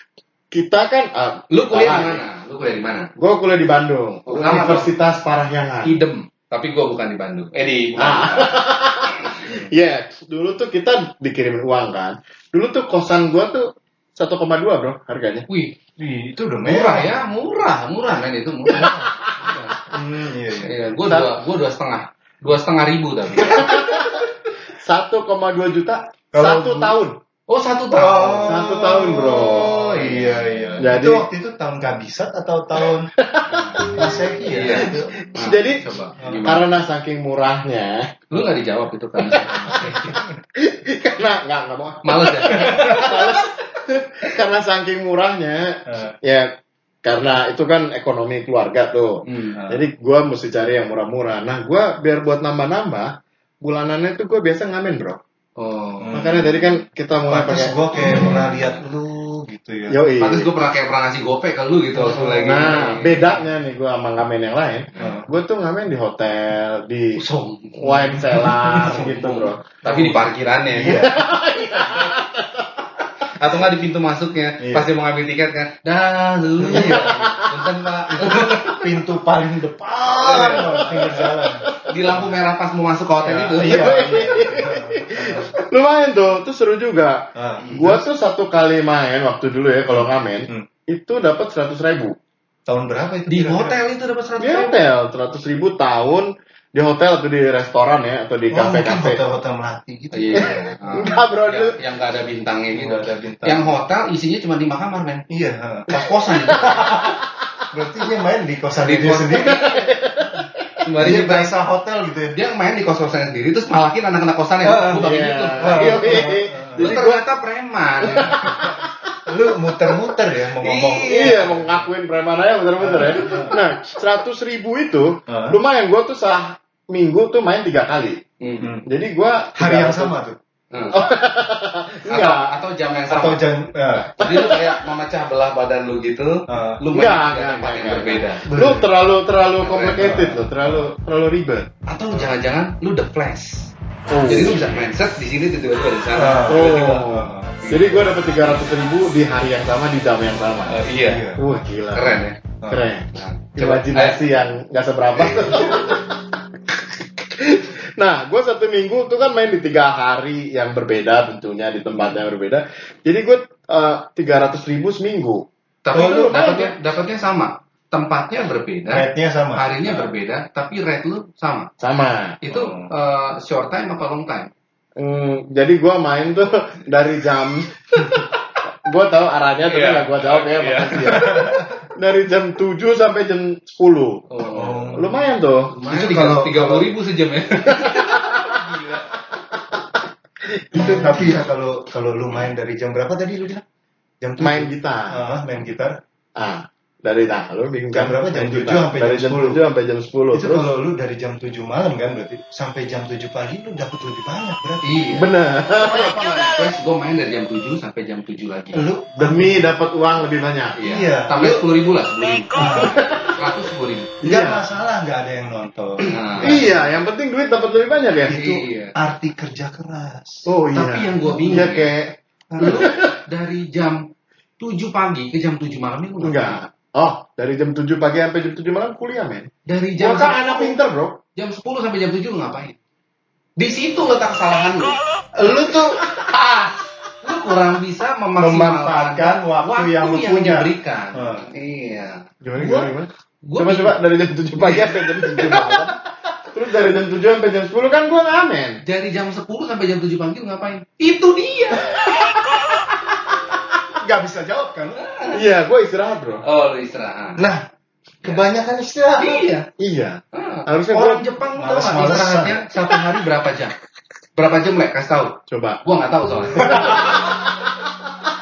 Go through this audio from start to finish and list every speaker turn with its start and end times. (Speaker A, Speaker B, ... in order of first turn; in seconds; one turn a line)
Speaker A: 0.5-2.2
Speaker B: 1.5-3.1
Speaker A: 3.2-6.0
Speaker B: 4.3-4.9
Speaker B: 5.8-9.4
Speaker A: 8.0-15.5
Speaker B: 15.5-15.8
Speaker C: 16.0-17.2
Speaker B: 16.6-19.8
Speaker C: 19.9-20.8
Speaker B: 20.6-24.0
Speaker A: 21.1-21.4
Speaker A: 23.4-27.2
Speaker C: 26.3-27.0
Speaker B: 27.5-28.6
Speaker C: 27.9-33.1
Speaker A: 28.4-29.8
Speaker B: 29.4-30.8
Speaker A: 30.8-31.3
Speaker A: 33.2-34.0
Speaker B: 33.5-36.7
Speaker C: 33.8-35.2
Speaker A: 34.6-35.8
Speaker C: 36.2-36.5
Speaker A: 36.4-38.2
Speaker B: 38.3-40.2
Speaker A: 39.3-46.5
Speaker C: 39.7-40.3
Speaker B: 42.0-43.1
Speaker C: 42.6-43.2
Speaker C: 45.9-46.2
Speaker A: 47.0-55.2
Speaker B: 49.2-49.6
Speaker C: 49.6-49.8
Speaker B: 55.6-56.3
Speaker C: 56.0-56.8
Speaker A: 56.1-57.8
Speaker C: 57.3-60.0
Speaker B: 58.1-58.8
Speaker A: 59.9-60.5
Speaker B: 60.2-63.4
Speaker C: 61.9-62.9
Speaker A: 62.4-70.1
Speaker B: 65.0-65.2
Speaker C: 65.0-65.3
Speaker C: 67.2-69.3
Speaker B: 67.3-67.8
Speaker B: 68.9-71.1
Speaker C: 70.7-71.2
Speaker A: 70.8-72.9
Speaker B: 73.2-78.9
Speaker C: 74.6-74.9
Speaker C: 76.6-77.2
Speaker A: 76.7-77.5
Speaker C: 78.1-82.3
Speaker B: 80.2-81.2
Speaker A: 80.3-81.9
Speaker B: 81.8-84.1
Speaker C: 83.2-85.6
Speaker A: 83.6-92.2
Speaker C: 87.3-88.0
Speaker C: 89.9-90.7
Speaker C: 92.7-93.8
Speaker B: 93.3-94.8
Speaker A: 94.4-99.2
Speaker C: 98.5-101.1
Speaker B: 100.1-105.2
Speaker A: 100.4-101.8
Speaker C: 102.7-103.7
Speaker C: 105.3-109.6
Speaker A: 106.5-107.0
Speaker B: 108.8-109.9
Speaker A: 109.4-110.5
Speaker B: 110.8-111.5
Speaker C: 111.0-112.4
Speaker B: 112.3-118.7
Speaker C: 114.6-115.1
Speaker A: 114.9-117.2
Speaker C: 115.6-116.9
Speaker A: 118.1-118.9
Speaker C: 118.4-121.8
Speaker B: 120.6-121.3
Speaker A: 121.1-128.2
Speaker C: 122.8-123.7
Speaker C: 125.3-125.6
Speaker B: 128.4-128.7
Speaker C: 128.6-128.9
Speaker A: 128.8-130.2
Speaker C: 129.6-130.4
Speaker B: 130.7-131.0
Speaker A: 130.9-132.5
Speaker B: 132.1-133.4
Speaker C: 133.1-134.2
Speaker B: 134.0-138.5
Speaker A: 134.2-134.8
Speaker C: 136.5-136.8
Speaker A: 136.9-141.7
Speaker C: 138.5-138.9
Speaker B: 139.6-140.3
Speaker C: 139.9-140.9
Speaker B: 141.9-143.7
Speaker A: 144.1-144.6
Speaker B: 144.3-147.1
Speaker C: 146.1-148.1
Speaker A: 146.5-156.2
Speaker B: 147.6-148.0
Speaker B: 150.7-151.3
Speaker C: 151.0-151.5
Speaker B: 151.9-152.4
Speaker C: 152.6-152.9
Speaker B: 153.1-154.2
Speaker A: 157.2-166.7
Speaker B: 165.8-171.7
Speaker C: 168.9-170.1
Speaker A: 171.8-172.4
Speaker B: 172.4-174.5
Speaker C: 172.5-172.9
Speaker A: 175.0-184.3
Speaker B: 177.9-178.6
Speaker B: 179.7-181.4
Speaker C: 181.1-181.7
Speaker B: 184.3-185.0
Speaker C: 184.5-185.3
Speaker A: 184.9-185.8
Speaker B: 185.7-189.2
Speaker C: 185.8-186.9
Speaker A: 187.8-188.6
Speaker A: 190.5-191.3
Speaker C: 190.7-193.6
Speaker C: 194.2-196.0
Speaker A: 194.4-195.3
Speaker A: 196.4-200.7
Speaker C: 197.9-199.6
Speaker C: 200.3-205.0
Speaker B: 204.8-208.9
Speaker A: 205.2-206.3
Speaker C: 208.7-209.7
Speaker A: 209.2-210.8
Speaker B: 210.8-214.2
Speaker C: 210.8-211.7
Speaker C: 212.5-213.0
Speaker A: 214.2-214.6
Speaker C: 214.2-216.9
Speaker B: 216.1-216.6
Speaker A: 216.4-218.4
Speaker C: 218.3-220.5
Speaker B: 218.3-218.9
Speaker A: 220.5-223.1
Speaker B: 220.7-221.9
Speaker C: 221.2-221.8
Speaker C: 222.5-222.9
Speaker B: 222.6-224.1
Speaker B: 224.6-226.6
Speaker A: 226.2-231.2
Speaker B: 229.7-230.8
Speaker B: 231.4-232.8
Speaker B: 233.6-242.9
Speaker C: 235.4-236.0
Speaker C: 238.4-241.5
Speaker A: 242.4-245.9
Speaker B: 243.4-244.0
Speaker B: 244.6-245.8
Speaker A: 246.5-248.8
Speaker B: 248.8-252.0
Speaker A: 251.9-252.4
Speaker C: 254.0-255.3
Speaker B: 254.9-255.4
Speaker A: 255.3-256.4
Speaker B: 256.4-257.4
Speaker C: 257.4-257.6
Speaker C: 258.2-259.5
Speaker B: 259.2-259.7
Speaker A: 259.8-261.3
Speaker B: 260.3-263.8
Speaker C: 261.6-262.7
Speaker B: 264.4-267.4
Speaker A: 265.5-265.8
Speaker A: 266.6-267.5
Speaker C: 266.7-267.2